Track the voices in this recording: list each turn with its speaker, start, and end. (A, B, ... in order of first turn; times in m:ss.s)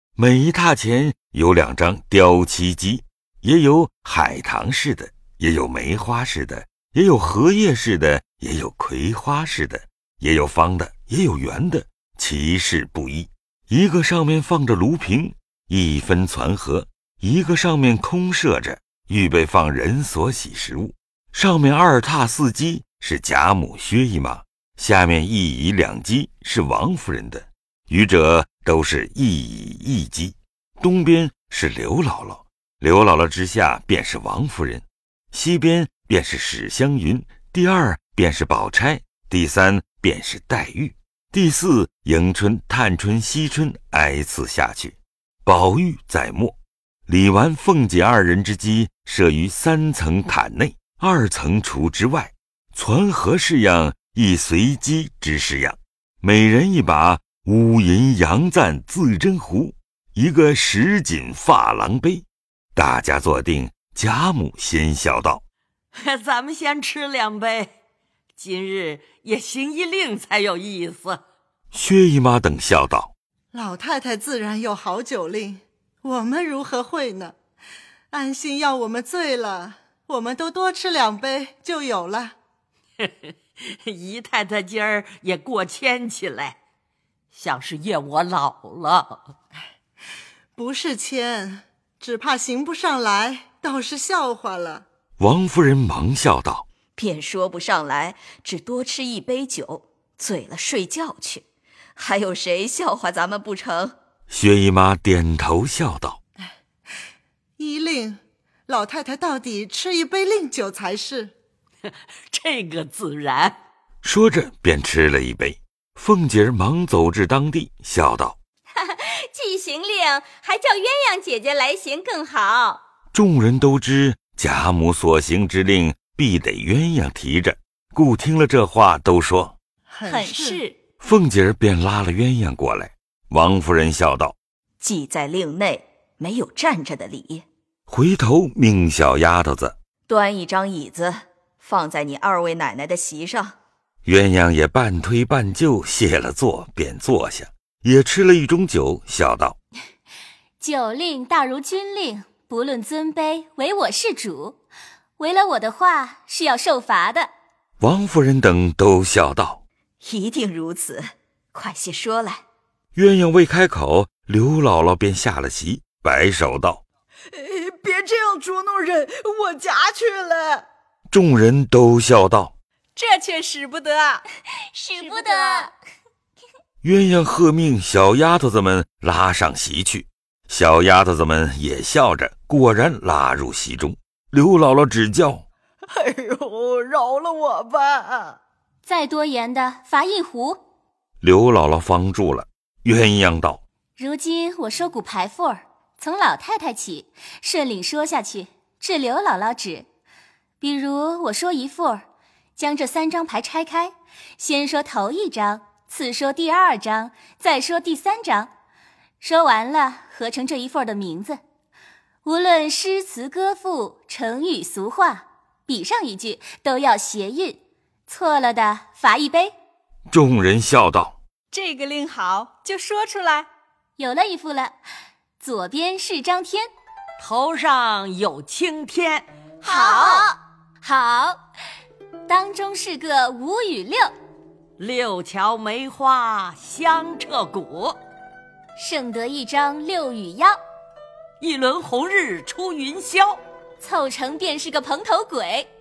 0:00.2-1:02.2 A
1:02.8-1:05.4 A
1:05.9-1:07.7 B
1:08.4-1:11.2 B
1:11.7-1:13.1 A
1:13.5-1:17.3 C
1:18.1-1:22.3 C
1:23.0-1:26.6 B
1:27.3-1:29.2 B
1:30.6-1:34.8 C
1:35.2-1:36.6 A
1:37.0-1:41.4 D
1:42.0-1:44.0 D
1:44.3-1:46.2 A
1:47.6-1:51.3 C
1:52.3-1:53.6 B
1:54.0-1:58.4 A
1:58.8-2:02.8 E
2:03.1-2:09.6 A
2:09.9-2:10.6 C
2:10.1-2:10.7 E
2:11.0-2:14.4 A
2:14.8-2:17.4 D
2:17.9-2:19.7 A
2:20.1-2:23.6 D
2:24.0-2:29.6 A
2:30.6-2:34.6 F
2:35.2-2:37.3 F
2:37.8-2:39.6 A
2:40.0-2:42.4 D
2:42.9-2:46.8 A
2:47.3-2:50.6 G
2:51.1-2:52.5 A
2:53.0-2:54.2 H
2:54.9-2:55.7 H
2:56.8-3:05.4 A
3:05.9-3:08.4 G
3:08.8-3:10.6 F
3:11.2-3:13.6 A
3:14.0-3:19.9 F
3:20.6-3:22.0 F
3:22.6-3:28.5 F
3:29.2-3:31.4 F
3:32.2-3:39.5 F
3:40.1-3:41.2 A
3:41.5-3:43.5 H
3:44.0-3:44.8 F
3:45.4-3:46.7 F
3:47.2-3:49.2 B
3:49.6-3:50.2 H
3:49.7-3:50.2 F
3:50.8-3:51.4 F
3:52.3-3:54.1 F
3:54.8-3:58.0 B
3:58.8-4:00.5 F
4:01.4-4:03.4 B
4:03.8-4:05.7 F